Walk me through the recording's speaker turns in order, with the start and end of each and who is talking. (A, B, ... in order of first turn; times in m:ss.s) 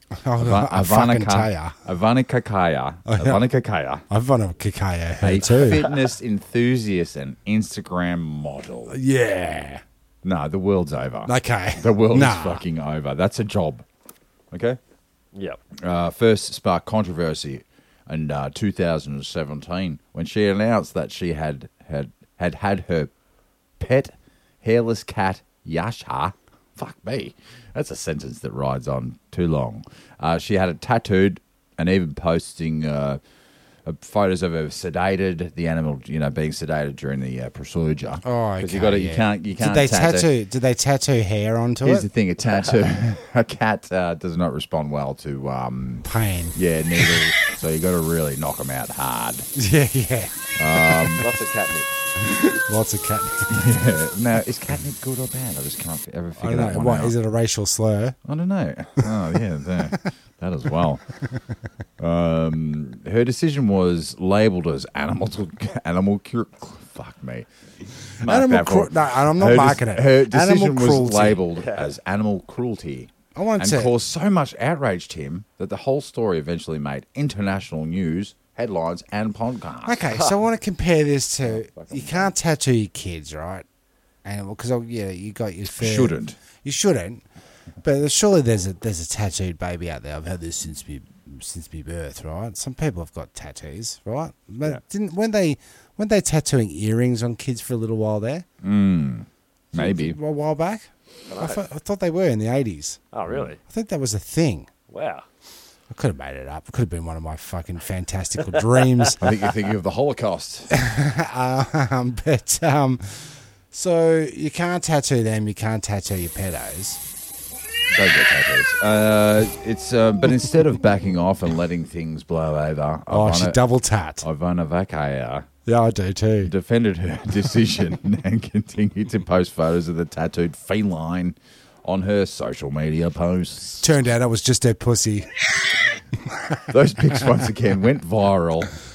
0:00.2-0:01.8 A
0:00.4-0:04.0 B
0:03.1-0:03.4 A
0:04.1-0:05.9 A
0:05.2-0:09.0 B
0:08.9-0:09.8 A
0:10.2-0:13.8 B
0:11.3-0:12.6 A
0:14.5-0:14.8 B
0:15.3-0:15.6 C
0:15.8-0:23.1 B
0:23.8-0:33.2 B
0:33.8-0:40.3 B
0:38.2-0:42.1 A
0:41.8-0:49.5 B
0:46.0-0:47.3 A
0:49.6-0:51.2 A
0:50.6-0:51.2 B
0:51.2-0:51.9 C
0:52.2-0:53.6 A
0:53.5-0:57.2 B
0:56.4-0:58.2 A
0:58.2-1:01.0 B
1:02.0-1:07.5 B
1:08.2-1:11.4 A
1:08.2-1:20.1 B
1:11.6-1:11.9 C
1:13.4-1:13.9 A
1:19.9-1:23.6 A
1:21.4-1:22.3 B
1:24.2-1:27.2 A
1:25.8-1:26.4 B
1:27.8-1:38.5 A
1:38.6-1:40.2 B
1:39.7-1:43.0 A
1:41.3-1:41.6 C
1:43.1-1:43.6 C
1:43.7-1:44.7 A
1:44.9-1:45.3 C
1:45.9-1:49.2 A
1:48.5-1:49.1 C
1:49.2-1:50.7 B
1:50.7-1:57.0 A
1:57.9-2:03.6 B
2:03.1-2:04.2 A
2:04.2-2:05.5 B
2:05.7-2:06.5 A
2:06.4-2:14.0 B
2:13.8-2:15.3 A
2:16.7-2:18.7 B